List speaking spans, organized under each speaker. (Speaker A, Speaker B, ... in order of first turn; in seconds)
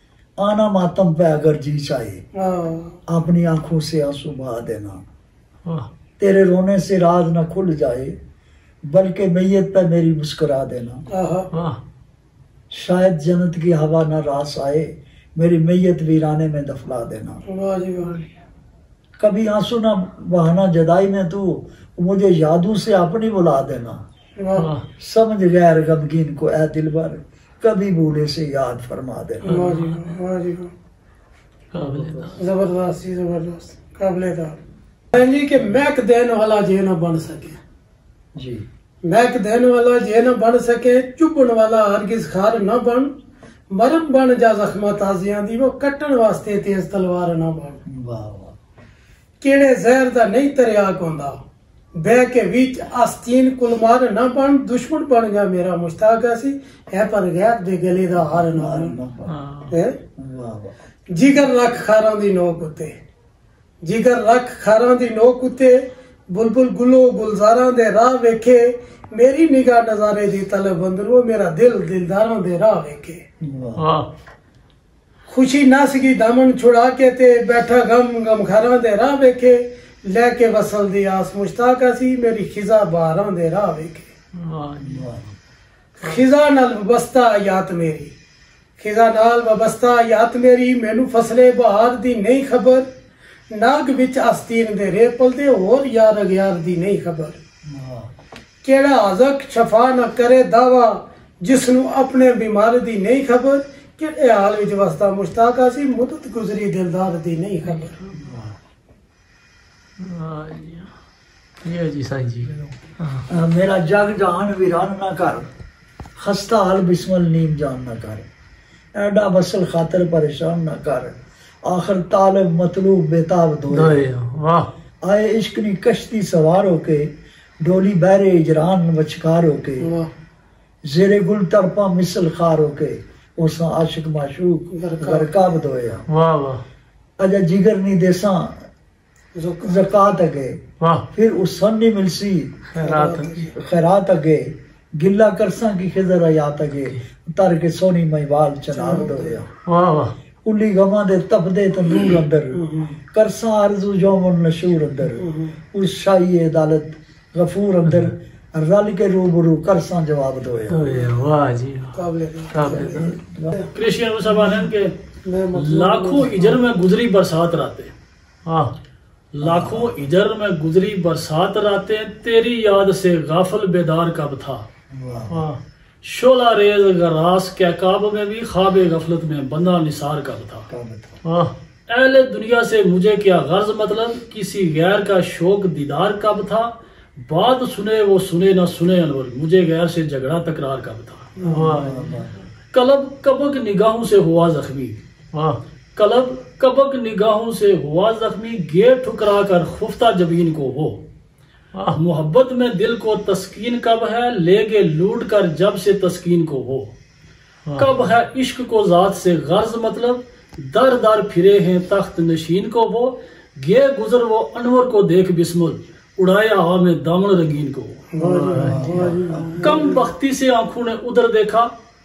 Speaker A: 0.4-2.2, 3.1-5.0, 6.2-8.2, 8.8-11.0, 12.7-17.4, 19.2-24.0, 25.0-29.6, 31.8-32.3, 38.4-38.6, 47.9-48.5, 58.1-59.4, 60.2-60.8, 73.4-73.8, 84.8-85.3, 97.7-98.1, 108.1-108.6, 113.3-115.5, 116.2-118.2, 118.9-121.1, 121.6-124.0, 125.0-129.9, 130.8-136.1, 137.2-138.6, 139.6-140.6, 141.1-142.6, 143.5-149.5, 150.4-160.9, 162.6-163.6, 169.4-170.0, 174.9-175.5, 180.7-181.2, 191.5-192.4, 218.5-219.9
Speaker B: 2.4-3.0, 11.1-11.5, 17.5-18.1, 24.4-24.7, 29.4-30.7, 32.4-34.6, 35.1-37.6, 39.0-43.1, 43.7-47.8, 49.4-51.4, 52.0-59.0, 59.7-60.0, 61.1-63.0, 63.8-73.2, 75.3-84.1, 86.0-88.1, 88.8-92.9, 93.5-97.4, 98.6-108.0, 129.8-130.1, 134.7-135.5, 139.4-139.9, 142.8-143.5, 148.7-149.4, 151.9-153.0, 155.1-155.6, 161.9-163.1, 165.2-166.5, 191.4-191.7, 218.1-220.0
Speaker C: 11.5-11.8, 24.5-24.9, 29.5-30.1, 31.7-32.4, 59.2-59.8, 73.8-74.1, 84.4-85.1, 107.7-108.1, 110.0-110.9, 111.6-113.2, 123.7-124.7, 136.1-136.6, 140.8-141.1, 142.7-143.5, 149.7-150.1, 157.9-158.1, 160.7-162.0, 162.5-163.1, 168.4-168.7, 175.3-175.6, 181.2-181.5, 191.5-192.2, 195.3-195.6, 207.7-208.1, 218.2-219.1
Speaker D: 163.7-164.9, 165.6-167.9, 169.3-174.7, 176.0-180.7, 181.9-191.4, 192.7-195.0, 196.0-201.0, 201.9-206.9, 207.8-218.0, 219.6-221.7